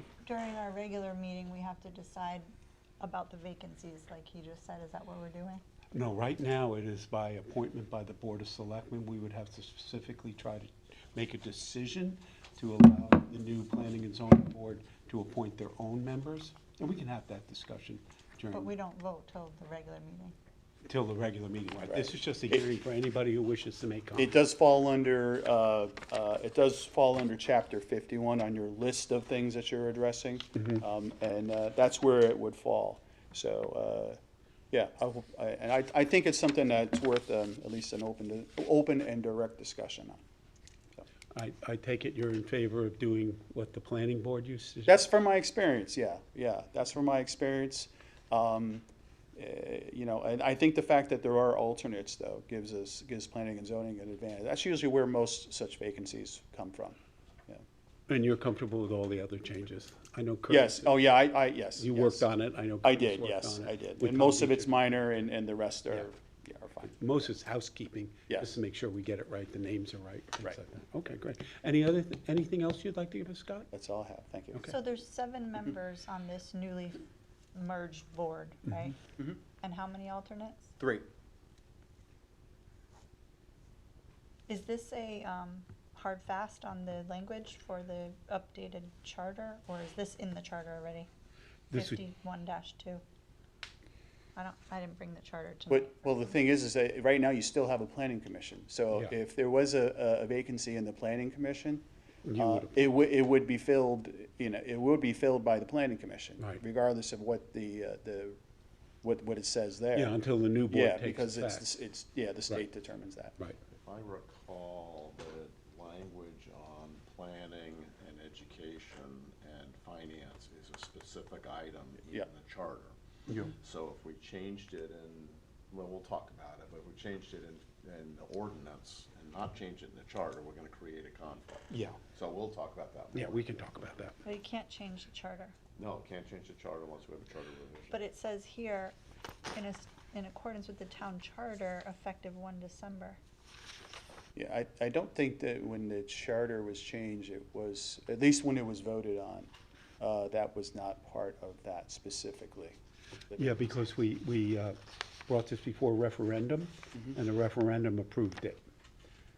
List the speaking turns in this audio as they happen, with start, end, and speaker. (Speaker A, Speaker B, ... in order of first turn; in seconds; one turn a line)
Speaker A: 0.2-2.5
Speaker A: 3.0-5.6
Speaker B: 5.9-18.7
Speaker A: 18.5-20.4
Speaker B: 20.9-24.4
Speaker C: 21.9-22.6
Speaker C: 24.2-34.2
Speaker C: 34.7-40.2
Speaker B: 41.3-45.0
Speaker C: 44.9-48.9
Speaker C: 49.4-57.6
Speaker B: 58.1-61.0
Speaker C: 60.5-62.3
Speaker B: 61.8-64.7
Speaker C: 62.8-67.3
Speaker B: 66.9-73.7
Speaker C: 73.7-74.8
Speaker A: 74.7-77.0
Speaker A: 77.5-80.7
Speaker C: 80.8-81.1
Speaker A: 84.5-91.1
Speaker A: 91.7-93.0
Speaker B: 91.7-92.0
Speaker A: 94.4-96.4
Speaker C: 95.7-101.8
Speaker B: 102.2-102.7
Speaker C: 102.4-108.4
Speaker C: 109.0-110.2
Speaker B: 110.0-111.7
Speaker C: 110.7-113.4
Speaker D: 113.7-123.0
Speaker D: 123.5-133.8
Speaker B: 131.7-132.0
Speaker B: 133.1-134.2
Speaker A: 134.2-135.6
Speaker D: 135.8-138.0
Speaker A: 137.9-139.0
Speaker A: 139.5-143.2
Speaker C: 144.3-152.8
Speaker C: 153.3-153.9
Speaker B: 153.4-158.6